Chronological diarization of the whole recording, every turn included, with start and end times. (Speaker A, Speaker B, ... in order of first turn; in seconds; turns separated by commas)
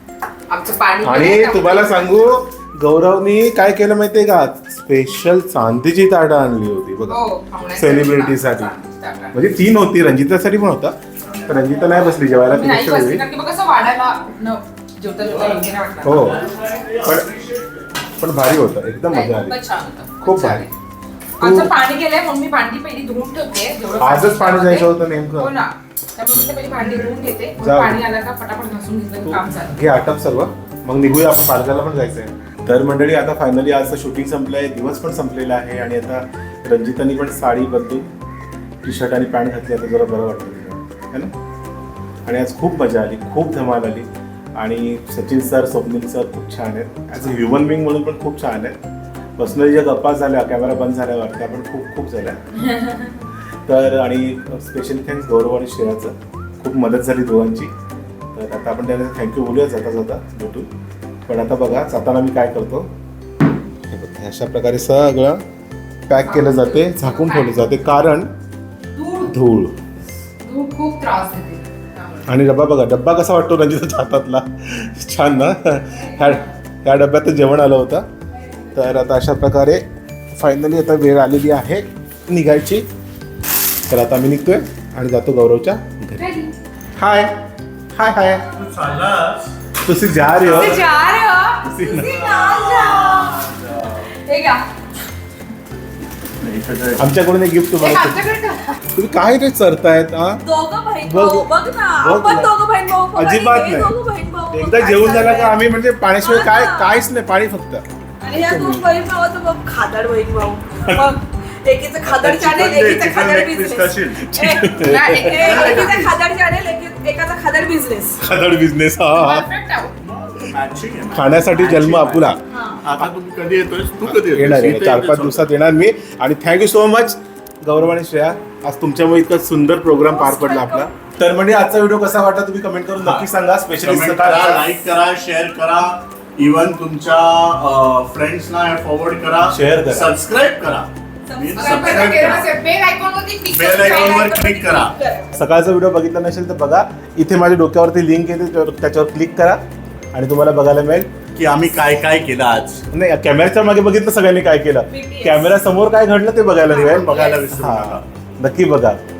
Speaker A: 0.5-2.3, Speaker B: 1.0-7.2, Speaker A: 7.1-9.4, Speaker B: 7.8-8.7, Speaker B: 9.3-13.2, Speaker A: 12.4-16.6, Speaker C: 15.2-17.9, Speaker B: 16.0-16.4, Speaker B: 17.0-17.3, Speaker B: 18.2-19.6, Speaker A: 19.1-20.7, Speaker B: 20.2-20.7, Speaker A: 21.4-29.9, Speaker B: 21.4-21.7, Speaker B: 24.0-25.5, Speaker B: 27.6-28.0, Speaker B: 29.2-38.1, Speaker B: 38.8-41.3, Speaker B: 42.2-48.8, Speaker B: 49.4-52.4, Speaker A: 52.7-53.1, Speaker B: 53.6-57.7, Speaker B: 58.3-60.7, Speaker B: 61.3-62.9, Speaker B: 63.9-65.4, Speaker B: 66.1-68.3, Speaker A: 66.2-67.8, Speaker A: 69.0-69.3, Speaker B: 69.3-69.8, Speaker A: 70.4-72.2, Speaker B: 72.2-78.0, Speaker A: 76.0-76.3, Speaker B: 78.7-82.9, Speaker B: 83.9-86.2, Speaker A: 86.2-86.5, Speaker B: 87.0-87.4, Speaker B: 87.9-88.5, Speaker C: 88.5-89.5, Speaker B: 89.8-90.8, Speaker C: 90.3-90.8, Speaker A: 90.5-91.8, Speaker B: 91.6-92.2, Speaker D: 91.8-93.0, Speaker C: 92.0-94.1, Speaker A: 92.4-93.3, Speaker A: 94.2-94.7, Speaker C: 96.4-97.1, Speaker B: 97.0-98.2, Speaker A: 97.8-98.8, Speaker B: 98.9-100.4, Speaker D: 100.4-105.6, Speaker B: 101.0-102.5, Speaker B: 103.1-103.9, Speaker B: 104.5-107.8, Speaker D: 106.2-107.0, Speaker D: 108.2-118.2, Speaker B: 108.5-108.7, Speaker C: 112.0-114.2, Speaker B: 114.2-116.0, Speaker A: 114.8-116.1, Speaker B: 118.2-119.5, Speaker A: 119.2-119.9, Speaker C: 120.0-125.5, Speaker B: 121.1-122.4, Speaker D: 122.5-122.8, Speaker B: 124.1-134.7, Speaker D: 130.0-130.9, Speaker C: 133.0-142.4, Speaker B: 139.5-140.2, Speaker D: 141.2-142.4, Speaker A: 141.5-144.3, Speaker C: 143.5-145.0, Speaker D: 143.7-145.3, Speaker B: 145.3-149.6, Speaker B: 150.1-151.1, Speaker C: 151.3-152.8, Speaker B: 152.9-159.0, Speaker D: 154.9-155.6, Speaker D: 156.6-157.5, Speaker C: 156.8-158.0